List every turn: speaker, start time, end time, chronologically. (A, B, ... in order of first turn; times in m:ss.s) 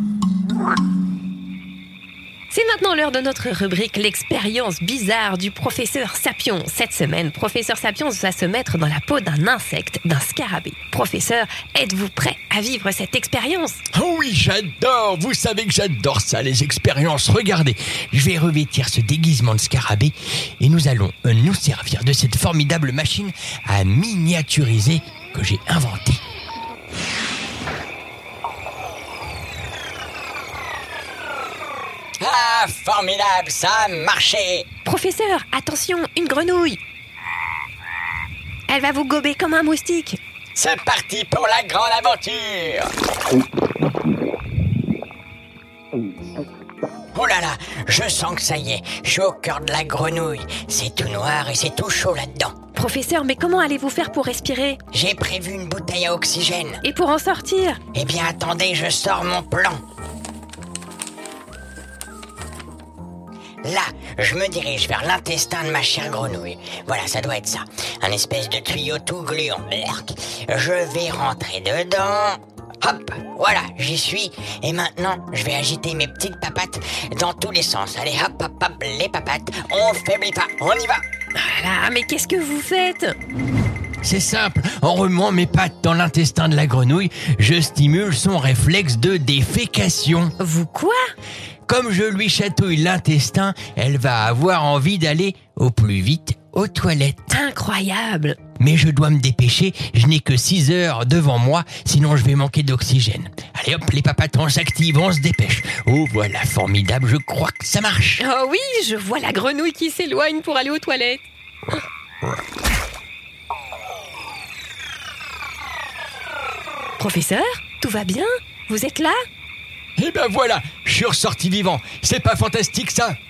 0:02.5-0:13.8 A
0:13.9-0:26.2 B
0:32.2-0:34.6 C
0:34.8-0:36.8 A
0:38.7-0:40.2 A
0:40.6-0:42.9 C
0:47.1-0:52.5 C
0:52.8-0:54.8 A
0:54.9-0:56.8 C
0:56.8-0:57.8 A
0:57.9-0:59.8 C
1:03.6-1:21.0 C
1:21.4-1:23.1 A
1:24.0-1:30.3 B
1:30.4-1:31.0 A
1:31.7-1:37.3 B
1:37.3-1:38.4 A
1:38.6-1:48.2 B
1:48.2-1:51.2 A
1:57.0-1:59.2 A
2:00.0-2:03.2 B